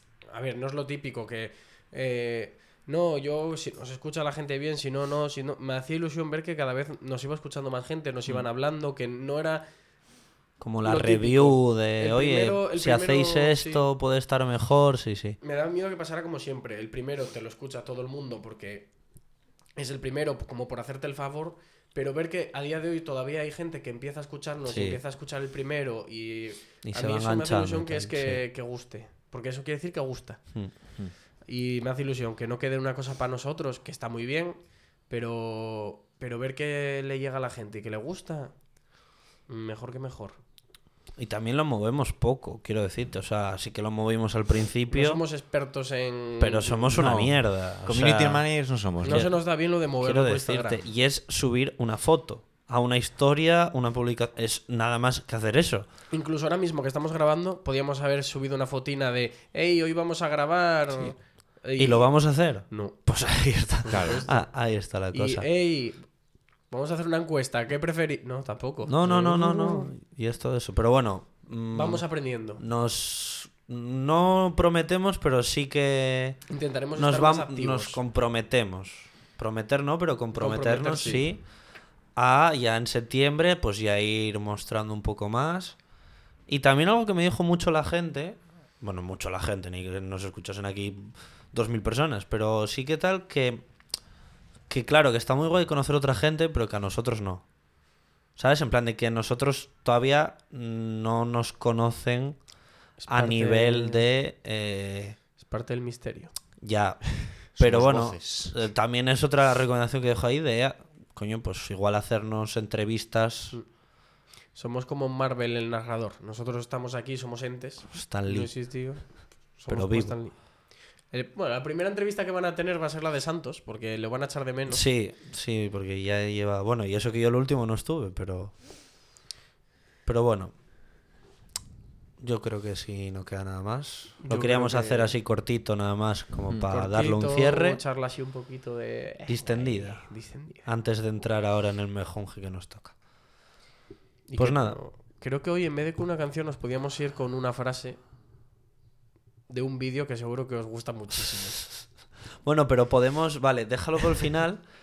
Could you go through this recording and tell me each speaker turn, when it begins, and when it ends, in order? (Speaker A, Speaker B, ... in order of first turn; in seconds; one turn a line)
Speaker A: 0.3-9.7
Speaker B: 10.6-15.4
Speaker A: 10.8-13.8
Speaker A: 15.4-18.9
Speaker A: 19.7-30.4
Speaker B: 24.6-25.0
Speaker B: 26.8-28.4
Speaker A: 31.4-38.5
Speaker A: 39.5-40.4
Speaker B: 41.2-45.2
Speaker A: 44.9-47.0
Speaker B: 46.4-48.5
Speaker C: 46.9-49.3
Speaker A: 49.0-50.8
Speaker B: 49.0-55.9
Speaker A: 56.1-63.1
Speaker B: 61.8-65.5
Speaker A: 63.8-66.1
Speaker C: 63.9-64.2
Speaker A: 66.7-69.9
Speaker B: 68.9-72.0
Speaker A: 71.7-72.6
Speaker B: 72.6-76.4
Speaker A: 76.5-78.0
Speaker B: 77.0-81.4
Speaker A: 80.3-81.2
Speaker B: 82.2-85.8
Speaker B: 86.5-93.6
Speaker B: 94.7-97.4
Speaker B: 98.3-102.4
Speaker A: 103.0-104.1
Speaker B: 103.1-105.2
Speaker A: 105.4-106.3
Speaker B: 106.6-113.6
Speaker C: 107.6-108.6
Speaker A: 114.5-124.8
Speaker B: 117.9-119.1
Speaker B: 119.7-120.2
Speaker B: 124.7-128.6
Speaker B: 130.1-130.5
Speaker B: 132.2-137.8
Speaker A: 134.2-135.1
Speaker A: 136.7-140.7
Speaker B: 139.3-140.1
Speaker B: 140.6-142.9
Speaker A: 144.3-148.0
Speaker B: 144.4-144.8
Speaker A: 149.5-151.6
Speaker B: 152.4-154.6